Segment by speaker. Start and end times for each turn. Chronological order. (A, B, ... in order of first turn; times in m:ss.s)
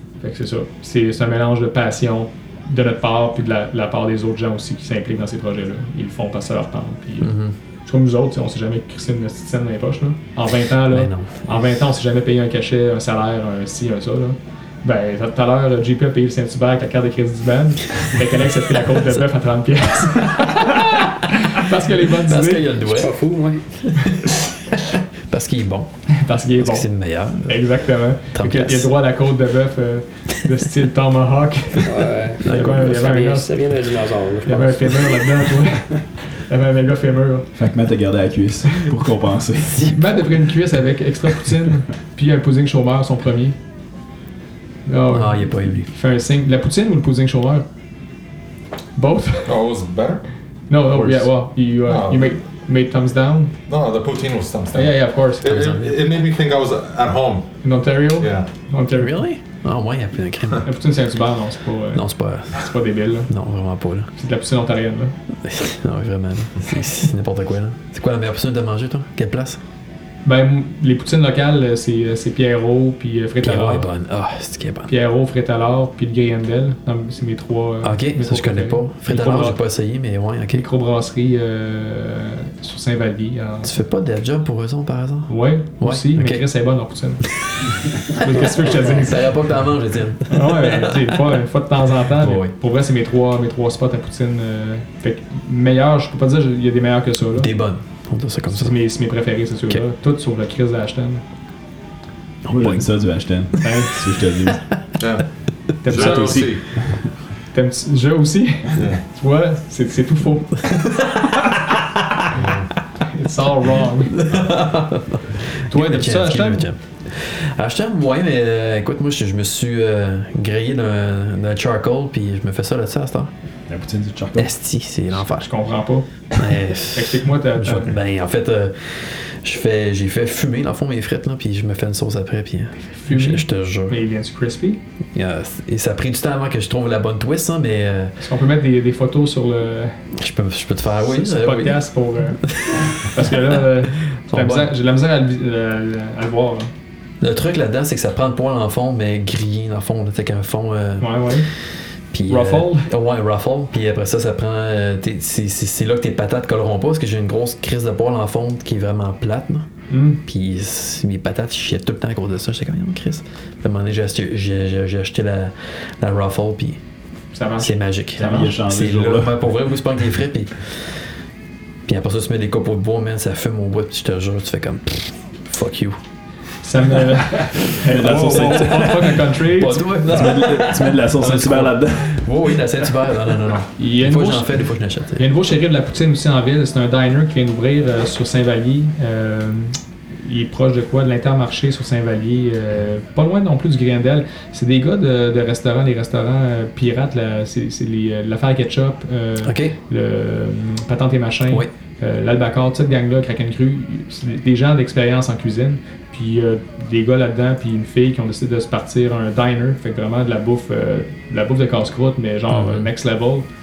0:00.2-0:22.8 A
0:07.2-0:07.5 B
0:10.9-0:11.5 B
0:22.0-0:23.2 B
0:22.9-0:23.8 C
0:24.0-0:24.3 B
0:25.3-0:27.8 B
0:26.2-0:26.9 A
0:27.4-0:33.6 A
0:28.3-0:28.9 B
0:31.8-0:35.1 C
0:32.4-0:32.9 B
0:34.4-0:37.5 A
0:37.6-0:40.0 D
0:39.8-0:43.6 A
0:44.8-0:47.6 A
0:45.1-0:45.9 B
0:49.0-0:49.5 A
0:49.4-0:50.2 E
0:50.7-0:53.6 A
0:50.9-0:51.3 E
0:51.8-0:52.4 E
0:53.7-0:57.5 E
0:54.7-0:55.7 A
0:55.5-0:56.0 B
0:57.6-0:59.2 A
0:58.2-0:58.5 E
0:59.0-1:00.7 B
1:00.6-1:03.3 A
1:01.9-1:02.7 B
1:03.3-1:04.1 B
1:04.2-1:05.1 A
1:05.4-1:09.6 B
1:10.2-1:13.9 A
1:13.4-1:14.9 B
1:14.9-1:19.6 A
1:17.8-1:20.7 B
1:20.5-1:23.7 A
1:23.6-1:26.4 B
1:25.3-1:29.3 A
1:28.2-1:31.3 B
1:30.3-1:37.5 A
1:32.1-1:32.5 B
1:37.3-1:38.8 B
1:38.5-1:41.2 A
1:42.4-1:42.9 B
1:42.5-1:44.6 D
1:43.6-1:43.9 A
1:45.0-1:45.2 E
1:45.8-1:46.6 A
1:45.9-1:46.7 E
1:45.9-1:47.1 D
1:47.5-1:50.8 A
1:48.7-1:49.0 E
1:51.0-1:52.0 B
1:52.3-1:52.7 E
1:53.0-1:54.2 A
1:54.1-2:03.3 B
1:55.7-1:56.7 A
2:03.7-2:04.5 D
2:04.4-2:05.5 B
2:05.2-2:06.1 A
2:06.3-2:14.0 B
2:06.9-2:08.0 A
2:12.8-2:14.8 A
2:15.1-2:18.1 B
2:18.2-2:20.0 A
2:20.1-2:21.8 B
2:21.0-2:26.7 A
2:22.4-2:24.7 B
2:27.2-2:39.7 B
2:31.0-2:31.5 A
2:32.3-2:32.9 A
2:39.9-2:40.2 A
2:40.2-2:46.8 B
2:47.3-2:48.5 A
2:47.6-2:51.0 B
2:48.2-2:49.4 D
2:51.8-2:56.0 B
2:56.6-3:00.0 A
2:57.6-2:59.2 D
2:58.0-3:05.3 B
3:00.0-3:02.6 D
3:03.8-3:33.4 A
3:19.4-3:19.8 B
3:32.5-3:32.9 B